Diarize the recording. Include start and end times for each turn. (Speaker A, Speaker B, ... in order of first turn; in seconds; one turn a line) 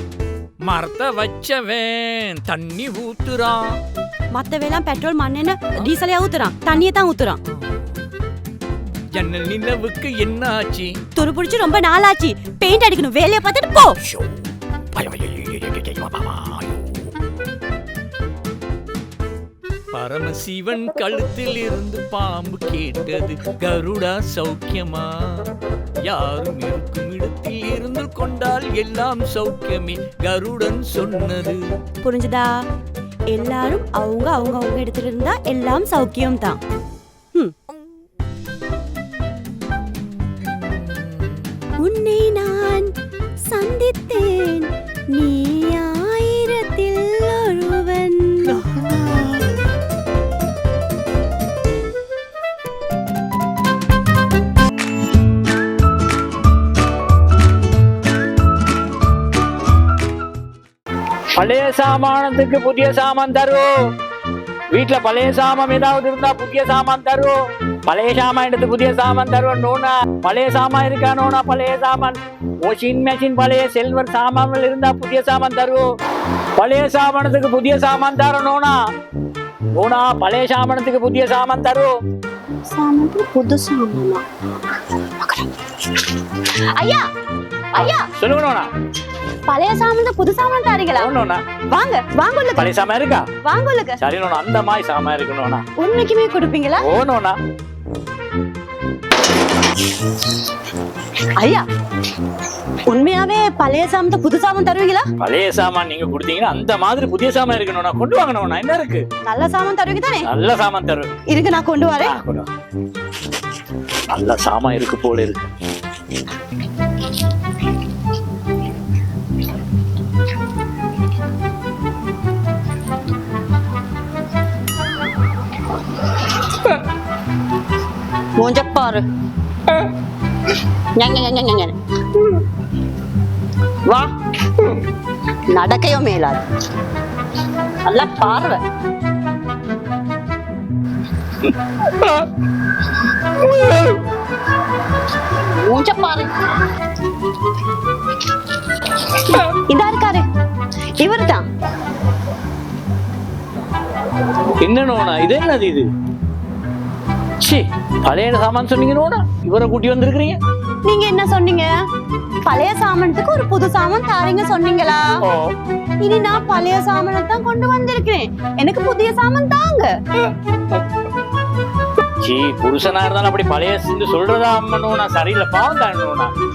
Speaker A: 0.6-3.6
Speaker B: 4.3-7.4
Speaker A: 9.1-10.9
Speaker B: 11.2-14.0
Speaker A: 14.0-14.4
Speaker A: 14.9-17.1
Speaker A: 19.9-25.5
Speaker A: 26.1-31.6
Speaker B: 32.0-32.6
Speaker B: 33.3-36.6
Speaker A: 39.8-41.0
Speaker B: 41.8-42.9
Speaker B: 43.5-48.6
Speaker A: 48.4-49.5
Speaker C: 61.4-63.7
Speaker C: 64.7-67.3
Speaker C: 67.9-75.8
Speaker C: 76.6-78.8
Speaker C: 79.8-81.9
Speaker B: 82.7-84.2
Speaker B: 85.1-85.5
Speaker B: 86.7-87.0
Speaker B: 87.7-88.1
Speaker C: 87.8-88.7
Speaker B: 89.5-91.1
Speaker C: 91.0-91.4
Speaker B: 91.7-92.7
Speaker C: 92.6-93.2
Speaker B: 93.4-94.0
Speaker C: 94.0-95.6
Speaker B: 95.8-96.8
Speaker C: 96.8-97.4
Speaker B: 101.4-101.6
Speaker B: 102.9-105.0
Speaker C: 105.2-109.0
Speaker B: 109.3-110.3
Speaker C: 110.3-111.1
Speaker B: 111.3-112.2
Speaker C: 112.0-112.5
Speaker C: 114.1-115.5
Speaker B: 128.4-129.0
Speaker B: 130.9-132.4
Speaker B: 133.9-134.8
Speaker B: 135.5-136.4
Speaker B: 137.8-138.6
Speaker B: 145.3-146.3
Speaker B: 149.2-150.3
Speaker B: 151.0-151.5
Speaker C: 154.6-155.9
Speaker C: 157.4-160.4
Speaker B: 160.9-161.7
Speaker B: 162.4-165.0
Speaker C: 165.2-165.5
Speaker B: 166.0-169.9
Speaker C: 172.2-176.3